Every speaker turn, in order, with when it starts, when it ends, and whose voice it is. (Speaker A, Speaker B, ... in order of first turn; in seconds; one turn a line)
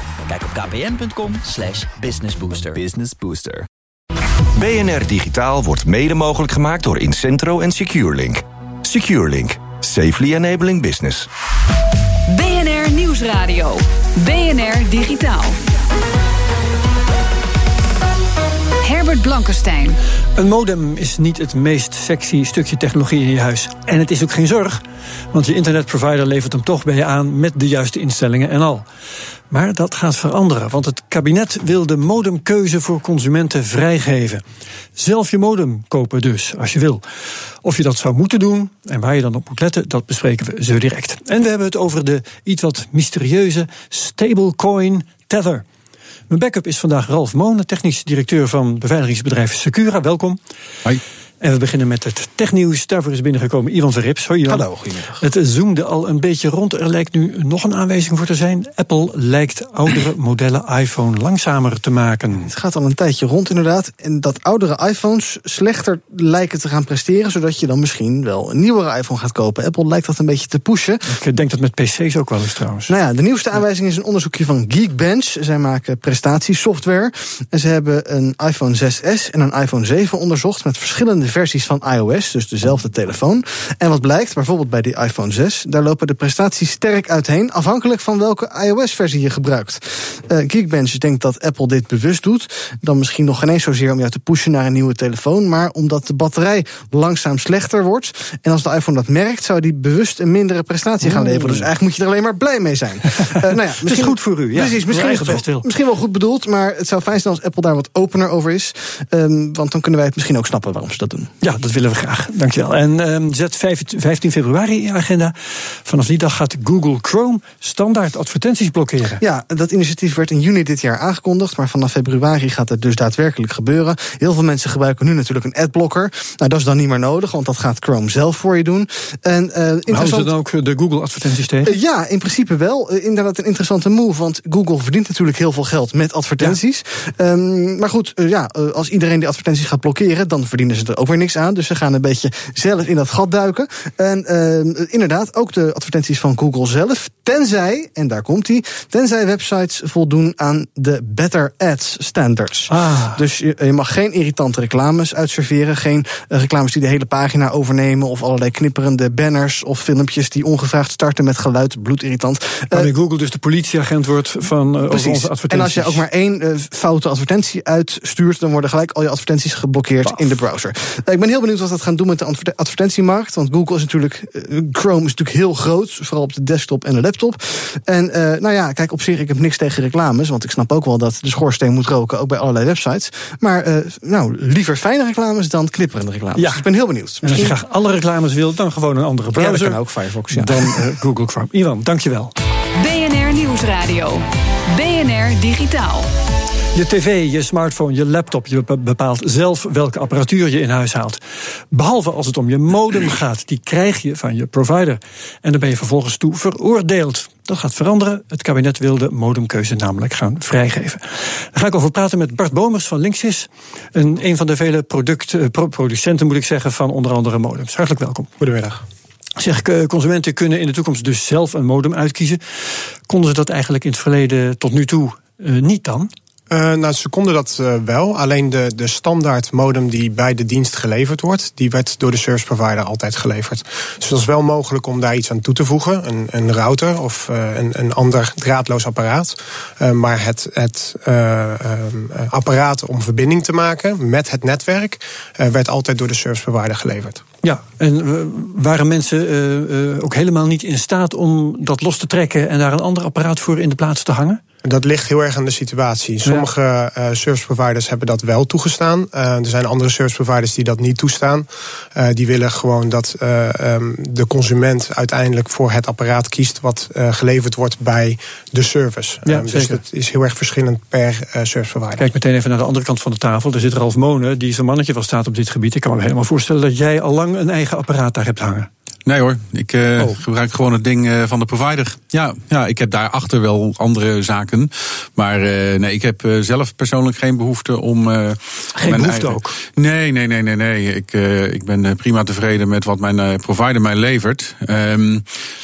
Speaker A: 0.3-2.9
Speaker B: 2.8-3.7
Speaker B: 4.6-11.3
Speaker C: 12.3-15.6
Speaker C: 18.8-20.0
Speaker D: 20.4-28.9
Speaker D: 29.5-34.4
Speaker D: 35.0-37.0
Speaker D: 37.6-45.6
Speaker D: 46.3-50.4
Speaker D: 51.4-54.7
Speaker E: 54.5-55.2
Speaker D: 55.2-62.5
Speaker E: 62.4-71.0
Speaker D: 71.1-72.9
Speaker E: 72.9-111.3
Speaker D: 101.0-101.7
Speaker D: 103.1-105.7
Speaker D: 111.4-119.2
Speaker E: 119.2-130.3
Speaker D: 129.9-131.8
Speaker E: 131.7-162.9
Speaker D: 152.7-153.2
Speaker D: 162.7-166.0
Speaker E: 164.9-187.6
Speaker D: 186.4-186.6
Speaker D: 187.2-192.3
Speaker E: 189.3-190.8
Speaker C: 192.8-196.1
Speaker D: 196.7-201.2
Speaker D: 201.7-218.3
Speaker F: 218.4-218.8
Speaker D: 219.4-222.4
Speaker D: 223.1-226.1
Speaker F: 226.5-247.2
Speaker D: 247.4-254.4
Speaker F: 254.7-272.1
Speaker D: 269.3-269.8
Speaker D: 272.0-278.7
Speaker G: 279.1-295.3
Speaker D: 288.8-289.5